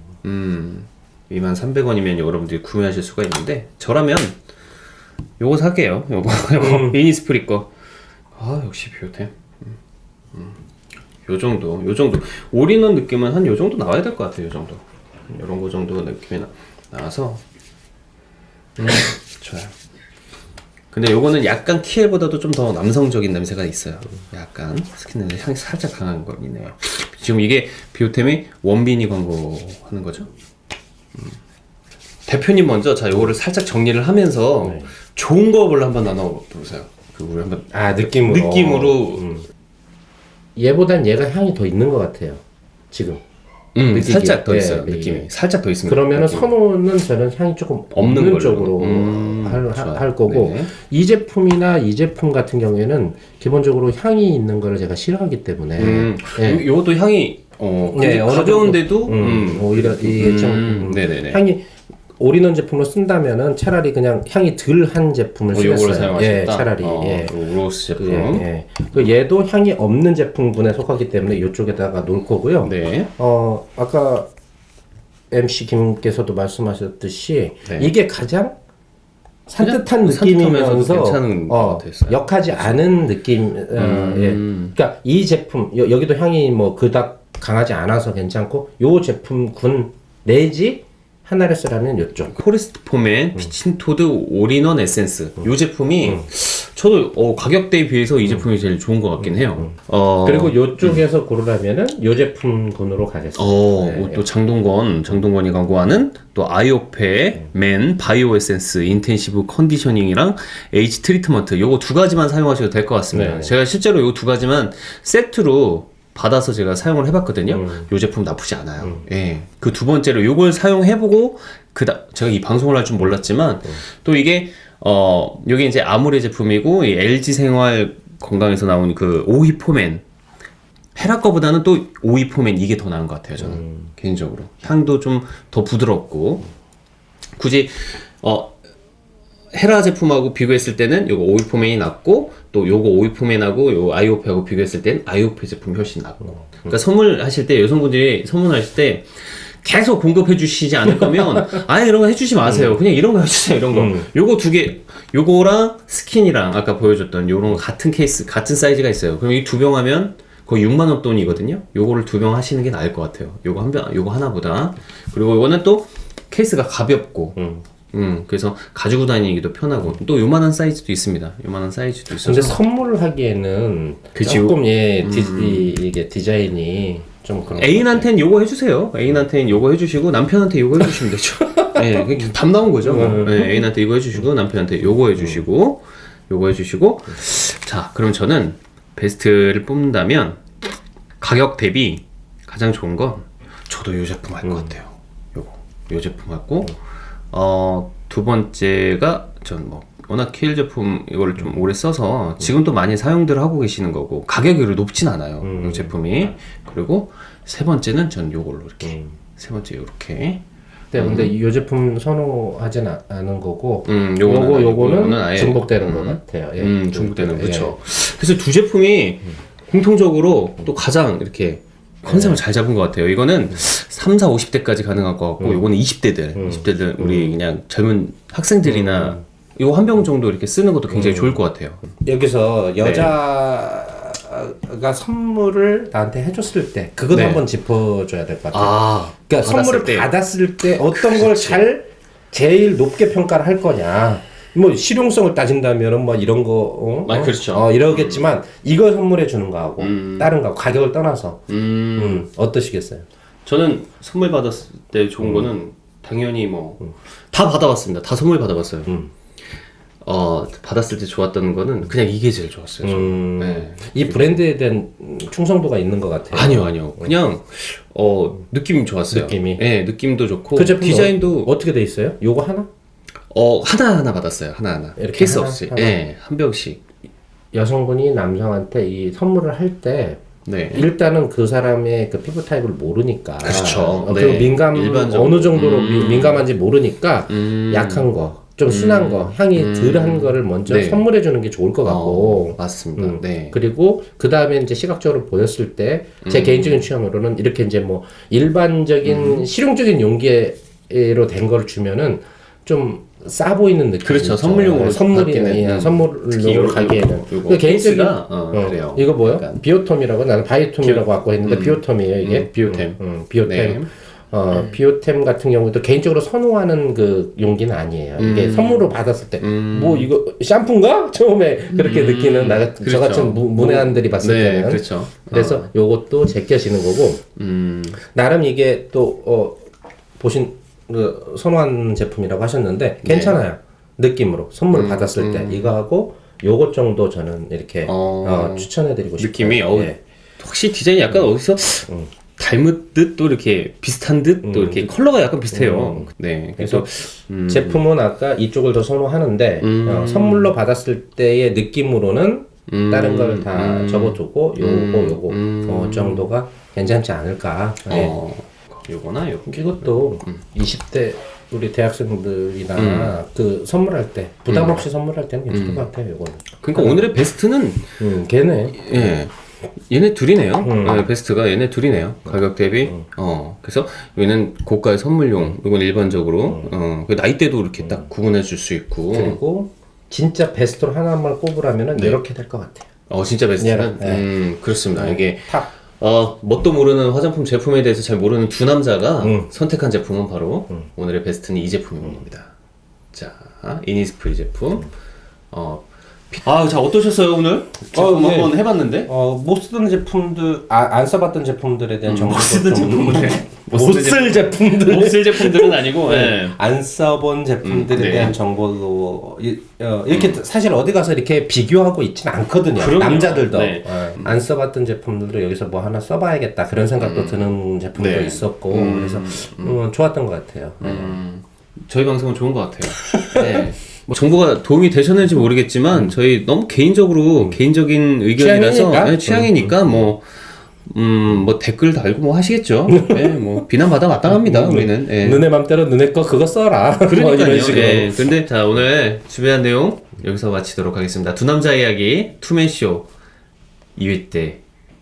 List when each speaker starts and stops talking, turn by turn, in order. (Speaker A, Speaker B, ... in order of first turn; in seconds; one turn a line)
Speaker A: 0.2-4.4
Speaker A: 5.4-7.7
Speaker B: 6.6-6.9
Speaker A: 8.3-9.8
Speaker A: 10.3-10.6
Speaker A: 11.2-17.4
Speaker A: 18.8-19.7
Speaker A: 20.9-30.3
Speaker A: 32.3-39.2
Speaker B: 34.6-34.9
Speaker B: 37.7-39.5
Speaker B: 40.5-43.2
Speaker A: 43.7-46.5
Speaker B: 43.9-45.3
Speaker B: 45.9-56.6
Speaker A: 47.9-50.7
Speaker A: 55.8-61.4
Speaker B: 57.9-67.3
Speaker A: 65.5-68.5
Speaker B: 67.9-74.3
Speaker A: 72.6-73.1
Speaker B: 75.3-78.5
Speaker A: 77.6-77.9
Speaker B: 79.5-92.3
Speaker A: 79.6-82.8
Speaker A: 83.7-84.7
Speaker A: 92.3-101.0
Speaker B: 99.2-104.2
Speaker A: 103.3-130.0
Speaker B: 113.1-113.5
Speaker B: 117.5-117.9
Speaker A: 130.9-136.5
Speaker B: 133.4-133.9
Speaker A: 137.4-138.6
Speaker A: 139.5-167.4
Speaker B: 146.4-146.8
Speaker B: 152.4-152.8
Speaker B: 153.7-154.1
Speaker B: 167.3-167.6
Speaker A: 167.9-172.6
Speaker B: 172.2-178.1
Speaker A: 174.1-175.8
Speaker A: 177.5-190.4
Speaker B: 181.6-182.3
Speaker B: 182.8-183.7
Speaker B: 185.1-185.4
Speaker A: 191.2-196.8
Speaker B: 194.4-194.7
Speaker A: 197.3-210.4
Speaker B: 205.4-206.0
Speaker B: 208.8-209.1
Speaker B: 210.9-217.8
Speaker A: 210.9-211.3
Speaker A: 213.8-231.8
Speaker B: 222.1-222.4
Speaker B: 225.4-225.7
Speaker B: 226.3-227.3
Speaker B: 228.7-229.2
Speaker B: 230.9-231.4
Speaker B: 232.0-253.0
Speaker A: 232.8-233.2
Speaker A: 237.1-237.4
Speaker A: 238.5-240.1
Speaker A: 240.9-241.6
Speaker A: 247.1-248.2
Speaker A: 249.8-250.3
Speaker A: 251.5-252.2
Speaker A: 253.4-258.9
Speaker B: 255.2-255.5
Speaker A: 260.0-264.4
Speaker B: 262.8-267.1
Speaker A: 266.3-271.5
Speaker B: 269.1-269.6
Speaker B: 270.5-272.7
Speaker A: 273.3-276.8
Speaker B: 275.0-276.0
Speaker B: 277.5-327.2
Speaker A: 280.4-280.9
Speaker A: 283.4-286.4
Speaker A: 287.3-288.1
Speaker A: 288.7-291.1
Speaker A: 291.8-293.6
Speaker A: 296.2-296.9
Speaker A: 299.0-299.4
Speaker A: 304.0-309.6
Speaker A: 310.8-313.9
Speaker A: 318.2-318.9
Speaker A: 319.4-320.1
Speaker A: 321.7-325.7
Speaker A: 327.4-328.0
Speaker B: 328.1-329.6
Speaker B: 330.2-340.0
Speaker A: 333.0-333.4
Speaker A: 334.7-335.7
Speaker A: 337.8-347.8
Speaker B: 344.4-344.9
Speaker B: 345.5-358.2
Speaker A: 349.6-350.5
Speaker A: 352.7-356.3
Speaker A: 357.9-360.4
Speaker B: 359.5-367.1
Speaker A: 362.8-363.1
Speaker A: 364.5-364.8
Speaker A: 365.5-365.9
Speaker A: 366.5-367.9
Speaker B: 368.0-369.1
Speaker A: 368.7-369.3
Speaker A: 369.9-379.4
Speaker B: 370.6-371.1
Speaker B: 372.2-373.1
Speaker B: 376.5-376.7
Speaker B: 379.1-382.9
Speaker A: 383.1-392.5
Speaker B: 383.6-384.3
Speaker B: 384.9-385.7
Speaker B: 389.2-389.5
Speaker A: 393.1-394.9
Speaker A: 395.5-399.1
Speaker B: 397.9-421.2
Speaker A: 402.0-406.6
Speaker A: 407.6-408.4
Speaker A: 410.1-410.4
Speaker A: 412.8-414.3
Speaker A: 417.0-419.8
Speaker A: 420.8-435.4
Speaker B: 423.1-423.6
Speaker B: 428.4-430.0
Speaker B: 432.9-433.6
Speaker B: 434.2-438.2
Speaker A: 437.0-443.1
Speaker A: 443.9-444.6